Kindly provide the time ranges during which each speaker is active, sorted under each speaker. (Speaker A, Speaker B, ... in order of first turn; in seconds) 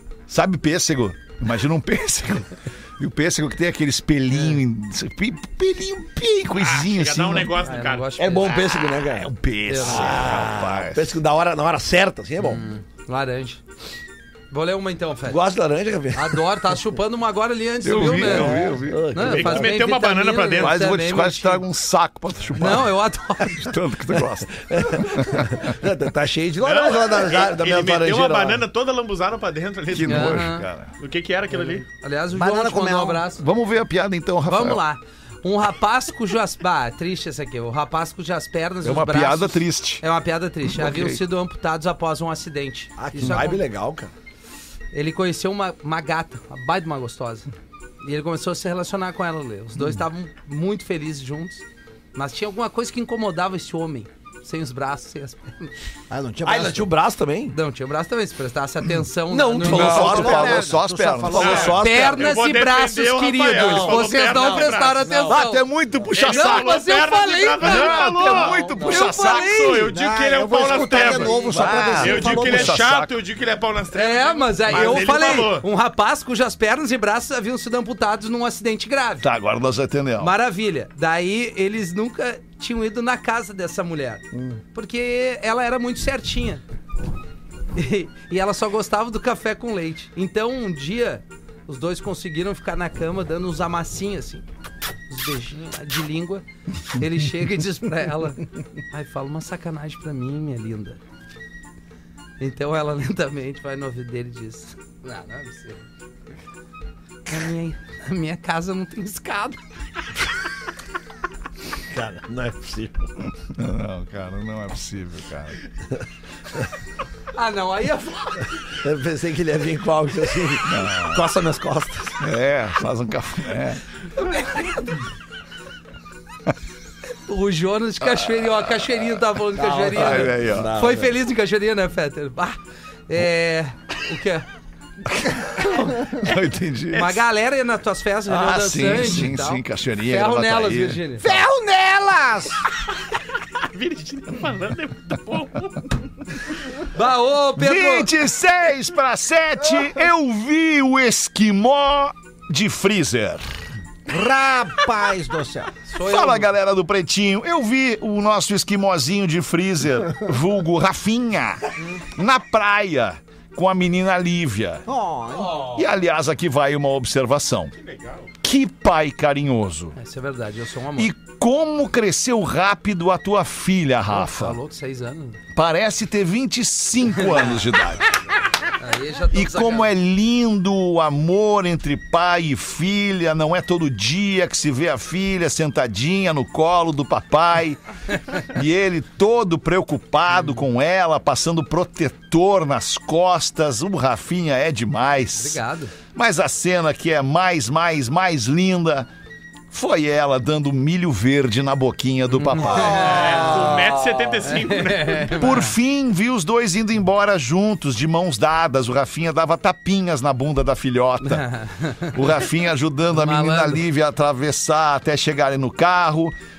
Speaker A: 0.3-7.5, 8.9-11.2, 17.8-19.1, 20.6-22.9, 23.5-25.7, 29.9-30.9, 33.4-34.8, 38.8-40.0, 40.6-41.2, 59.6-61.8, 65.3-67.0, 67.6-69.8, 71.5-73.1, 79.2-80.3, 113.5-115.6, 120.6-121.2, 122.2-123.8, 128.0-128.9, 129.9-130.7, 136.0-137.2, 138.3-141.0, 147.6-153.5, 156.0-164.8, 165.7-167.7, 168.4-169.9, 171.0-174.6, 175.5-178.1, 179.3-187.8, 188.3-195.6, 196.1-199.1, 199.7-203.3, 205.4-211.5, 212.1-216.3
Speaker B: 6.5-8.1, 19.2-20.8, 26.6-31.8, 61.3-65.3, 66.1-75.7, 143.6-145.9, 167.8-168.3, 202.8-205.5
Speaker C: 7.6-8.6, 9.7-10.2, 12.4-13.6, 14.5-15.4, 16.1-21.6, 22.6-23.7, 30.1-30.6, 31.9-33.4, 34.5-43.6, 44.9-47.5, 48.0-51.6, 52.1-55.7, 57.5-60.7, 61.7-65.6, 66.2-69.9, 70.9-72.0, 73.9-79.3, 80.2-86.6, 87.7-94.4, 95.1-101.0, 102.4-105.8, 107.3-109.6, 117.3-118.5, 124.2-125.0, 127.2-134.4, 135.6-136.1, 136.9-141.3, 146.9-148.1, 155.9-156.5, 170.0-171.1, 174.1-175.4, 177.1-177.7, 178.8-179.9, 195.3-195.9, 202.3-203.7, 204.4-205.7, 211.2-212.2, 213.1-213.8
Speaker D: 8.2-9.3, 9.8-12.6, 15.3-16.4, 18.1-19.7, 24.5-28.6, 43.0-44.1, 56.4-57.6, 59.3-60.6, 61.4-62.2, 63.5-65.3, 68.7-69.1, 111.9-113.1, 118.8-122.3, 129.5-131.1, 165.4-165.7, 202.8-203.9
Speaker E: 32.3-33.2, 56.1-56.9, 59.8-61.8, 69.9-72.8, 84.3-84.6, 141.2-142.6, 154.1-155.7, 164.8-165.8